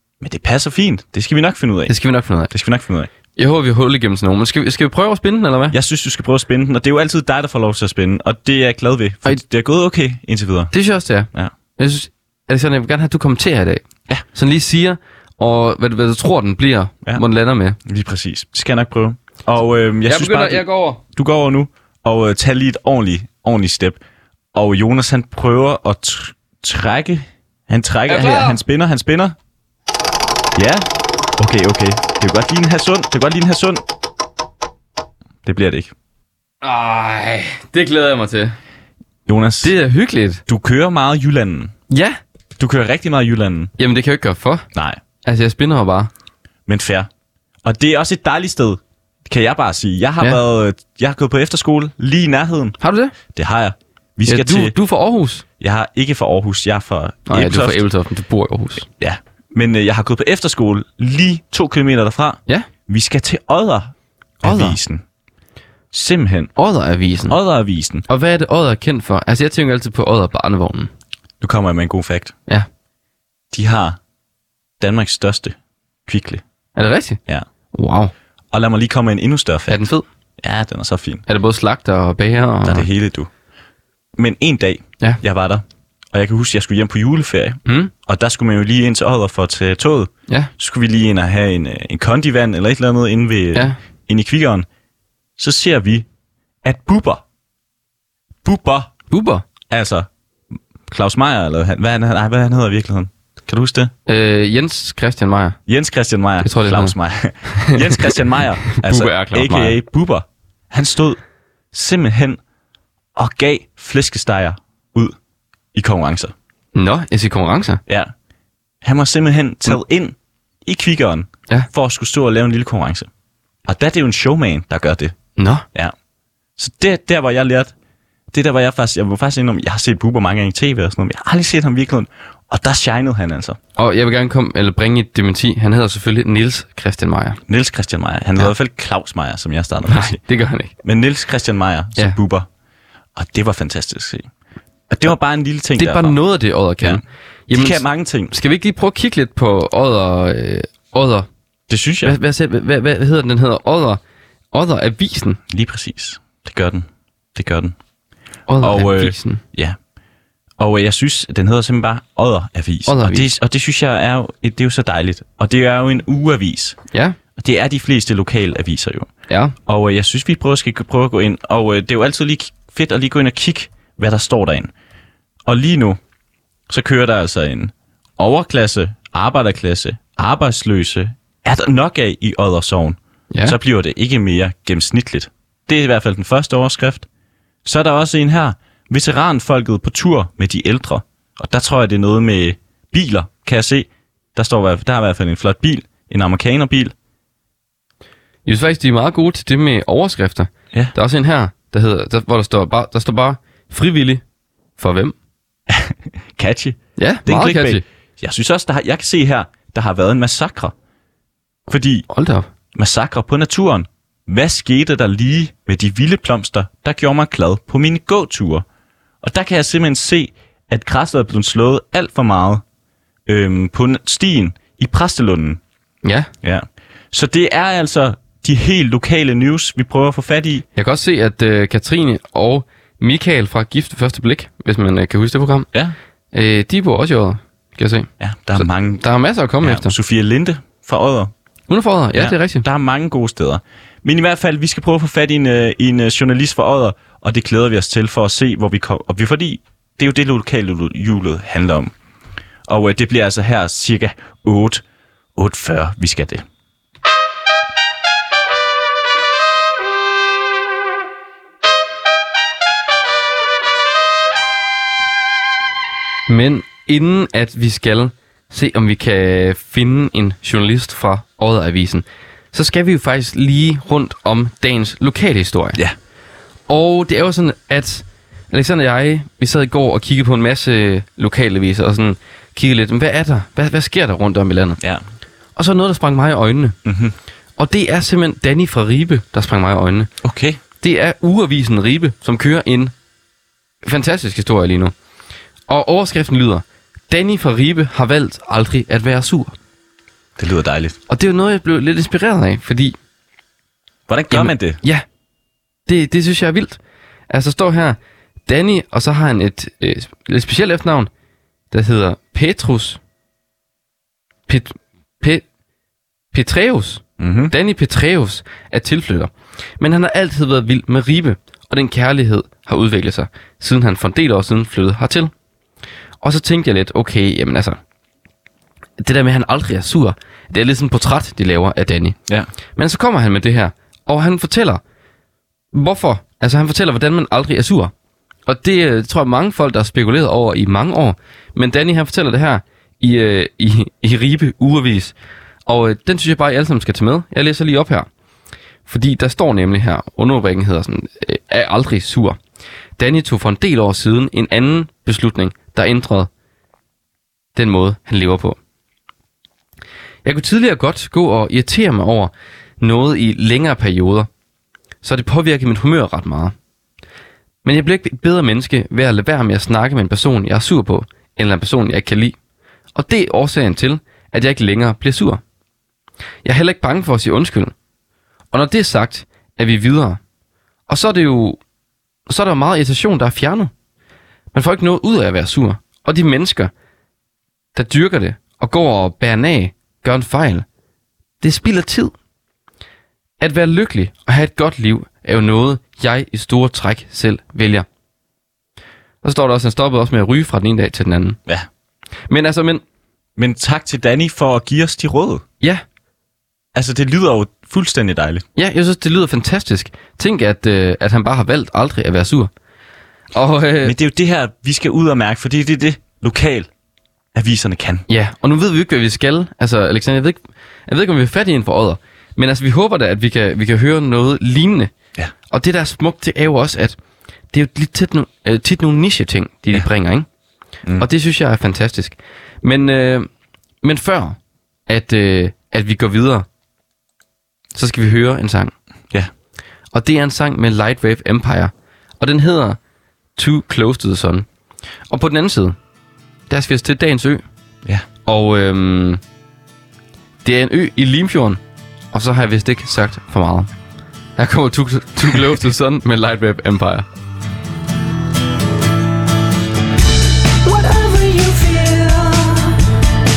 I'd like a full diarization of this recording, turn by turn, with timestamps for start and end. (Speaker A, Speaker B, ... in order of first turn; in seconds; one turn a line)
Speaker A: 0.2-1.9
Speaker B: 1.9-2.5
Speaker A: 2.5-3.1
Speaker B: 3.4-5.8
Speaker A: 5.7-10.7
Speaker B: 10.7-17.8
Speaker A: 17.8-24.0
Speaker B: 20.1-21.0
Speaker A: 24.5-29.4
Speaker B: 28.1-28.6
Speaker A: 30.6-33.8
Speaker A: 35.4-35.9
Speaker B: 36.6-38.5
Speaker A: 39.3-39.7
Speaker B: 39.6-40.4
Speaker A: 40.5-41.7
Speaker B: 41.9-42.2
Speaker A: 42.6-43.7
Speaker B: 43.8-44.6
Speaker A: 44.7-45.0
Speaker B: 45.2-46.1
Speaker A: 46.6-47.1
Speaker A: 47.6-52.8
Speaker B: 52.8-53.1
Speaker A: 53.3-54.7
Speaker B: 54.3-55.4
Speaker A: 55.6-57.8
Speaker B: 57.3-58.9
Speaker A: 59.0-65.0
Speaker B: 64.4-64.8
Speaker A: 65.9-66.5
Speaker B: 66.5-67.3
Speaker A: 67.3-68.0
Speaker B: 68.1-70.9
Speaker A: 71.4-72.3
Speaker A: 73.5-74.0
Speaker A: 74.8-75.5
Speaker A: 76.1-76.4
Speaker B: 76.8-77.2
Speaker B: 77.7-78.1
Speaker A: 78.5-79.9
Speaker B: 79.7-80.0
Speaker A: 80.4-81.2
Speaker B: 81.3-82.9
Speaker A: 82.6-83.3
Speaker A: 84.2-94.7
Speaker B: 87.7-87.9
Speaker A: 95.4-96.1
Speaker A: 96.6-97.2
Speaker A: 98.4-98.9
Speaker B: 99.1-99.4
Speaker A: 99.7-100.1
Speaker A: 100.9-103.9
Speaker B: 104.1-105.6
Speaker A: 105.7-111.2
Speaker B: 106.4-106.9
Speaker B: 107.5-108.2
Speaker B: 108.7-109.8
Speaker A: 111.7-112.4
Speaker A: 113.2-115.2
Speaker A: 115.7-116.3
Speaker B: 116.7-117.8
Speaker A: 117.9-118.1
Speaker A: 118.8-123.1
Speaker A: 123.7-125.1
Speaker B: 125.4-125.6
Speaker A: 126.6-127.7
Speaker A: 128.3-133.6
Speaker B: 133.8-137.4
Speaker A: 137.5-140.2
Speaker B: 139.9-140.7
Speaker A: 140.8-142.5
Speaker A: 143.2-144.3
Speaker A: 144.9-146.2
Speaker B: 145.8-151.3
Speaker A: 146.8-148.3
Speaker A: 151.7-152.2
Speaker B: 152.0-154.0
Speaker B: 154.5-155.4
Speaker A: 155.5-157.8
Speaker B: 158.5-159.4
Speaker A: 158.6-159.8
Speaker A: 160.6-166.8
Speaker B: 162.9-163.3
Speaker B: 166.9-167.2
Speaker A: 167.4-169.1
Speaker B: 169.3-169.6
Speaker A: 169.7-174.7
Speaker A: 175.4-176.0
Speaker A: 176.7-187.1
Speaker B: 183.3-183.6
Speaker A: 187.6-196.9
Speaker B: 198.4-204.2
Speaker B: 204.8-205.1
Speaker A: 205.7-210.7
Speaker B: 207.0-207.8
Speaker A: 211.7-212.1
Speaker B: 212.1-212.5
Speaker A: 212.7-218.6
Speaker A: 219.2-222.6
Speaker A: 223.3-225.6
Speaker B: 226.0-226.3
Speaker A: 226.4-230.7
Speaker B: 230.8-235.7
Speaker B: 236.3-239.9
Speaker A: 238.2-239.0
Speaker A: 239.6-241.3
Speaker B: 241.7-242.6
Speaker A: 242.1-251.9
Speaker A: 252.7-254.8
Speaker A: 255.3-256.4
Speaker B: 266.3-275.8
Speaker B: 276.7-284.8
Speaker B: 285.6-286.8
Speaker A: 286.8-287.1
Speaker B: 287.6-290.1
Speaker A: 290.2-290.6
Speaker B: 290.8-292.9
Speaker B: 293.8-294.9
Speaker B: 295.7-299.5
Speaker A: 300.4-301.0
Speaker B: 301.1-302.9
Speaker A: 304.1-304.8
Speaker B: 304.3-305.0
Speaker B: 305.9-306.8
Speaker B: 307.3-311.1
Speaker B: 311.7-313.0
Speaker B: 314.5-315.4
Speaker B: 316.3-325.3
Speaker A: 317.2-317.5
Speaker B: 326.2-327.8
Speaker B: 329.0-332.2
Speaker B: 332.8-334.8
Speaker B: 335.7-337.9
Speaker B: 338.4-345.1
Speaker B: 345.6-348.1
Speaker B: 348.9-352.4
Speaker B: 353.0-356.3
Speaker B: 357.5-358.6
Speaker B: 360.2-364.3
Speaker B: 365.0-366.5
Speaker B: 367.6-372.4
Speaker B: 372.9-375.4
Speaker B: 376.4-377.7
Speaker B: 378.5-380.2
Speaker B: 380.9-381.6
Speaker B: 382.3-383.7
Speaker B: 384.5-386.7
Speaker B: 387.7-390.6
Speaker B: 391.4-392.1
Speaker B: 393.4-397.9
Speaker B: 399.2-401.4
Speaker B: 402.3-402.8
Speaker A: 403.4-405.4
Speaker A: 406.7-408.4
Speaker B: 408.6-412.5
Speaker B: 413.3-413.9
Speaker A: 413.8-416.7
Speaker A: 417.3-418.1
Speaker B: 418.1-424.9
Speaker B: 425.5-426.9
Speaker B: 427.5-430.3
Speaker B: 431.0-433.3
Speaker B: 433.8-434.4
Speaker B: 434.9-436.4
Speaker B: 437.7-438.7
Speaker B: 439.9-442.8
Speaker B: 443.4-444.5
Speaker B: 445.1-445.8
Speaker B: 446.5-447.4
Speaker B: 448.2-449.2
Speaker B: 450.4-451.6
Speaker B: 452.1-453.7
Speaker B: 454.4-457.1